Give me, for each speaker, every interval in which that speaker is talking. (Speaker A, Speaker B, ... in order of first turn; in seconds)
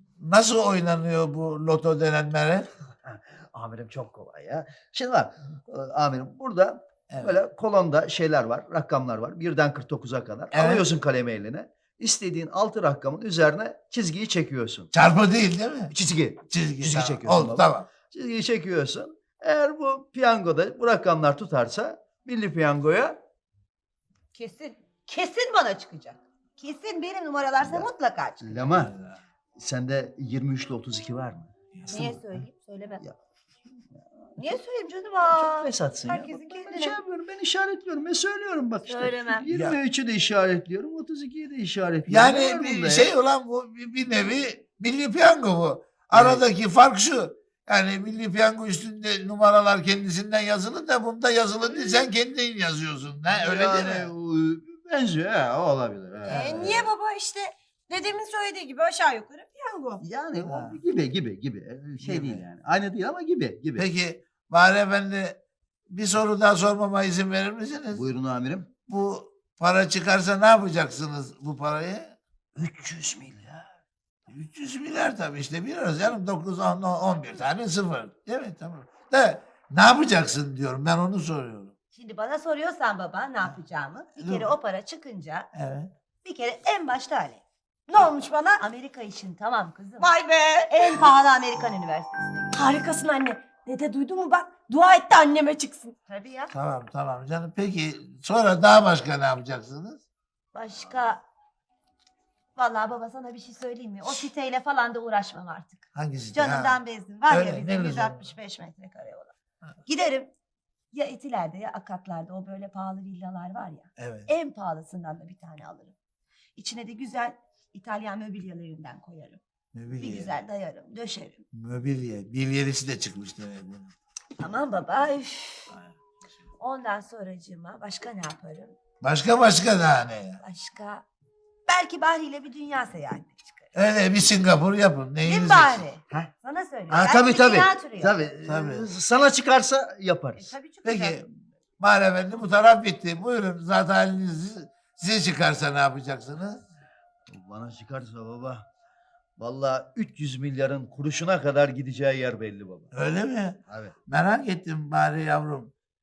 Speaker A: 0.2-2.7, 7.1-7.4, 10.5-10.8, 14.9-15.9, 16.5-17.9, 28.9-29.2, 31.7-32.2, 39.5-39.8, 42.1-54.1, 56.3-56.8, 60.5-60.8, 62.0-62.4, 63.8-68.0, 68.9-72.2, 74.3-81.7, 84.2-84.5, 85.5-85.9, 96.5-100.0, 105.9-106.8, 107.3-108.2, 114.0-114.3, 119.7-120.3, 121.5-123.9, 125.7-126.0, 129.0-130.4, 133.7-135.8, 138.4-138.9, 140.8-141.2, 141.8-146.6, 152.9-155.7
Speaker B: 3.0-14.9, 15.9-23.2, 27.6-27.9, 28.4-28.9, 29.6-32.0, 33.9-34.2, 35.2-43.1, 46.1-46.4, 53.3-56.9, 60.0-63.8, 67.9-68.7, 72.5-73.7, 136.9-140.5, 147.3-148.7, 149.4-152.9, 153.7-153.9
Speaker C: 24.3-28.6, 31.9-33.0, 34.4-37.0, 38.9-39.5, 56.3-60.0, 81.9-85.5, 86.2-90.1, 90.7-96.5, 100.5-101.2, 102.5-109.3, 109.8-110.3, 110.9-116.0, 116.5-119.4, 120.0-121.4, 124.4-125.7, 126.6-128.8, 130.4-131.0, 131.7-133.7, 135.2-138.1, 140.4-141.2
Speaker D: 90.0-90.7, 92.7-95.9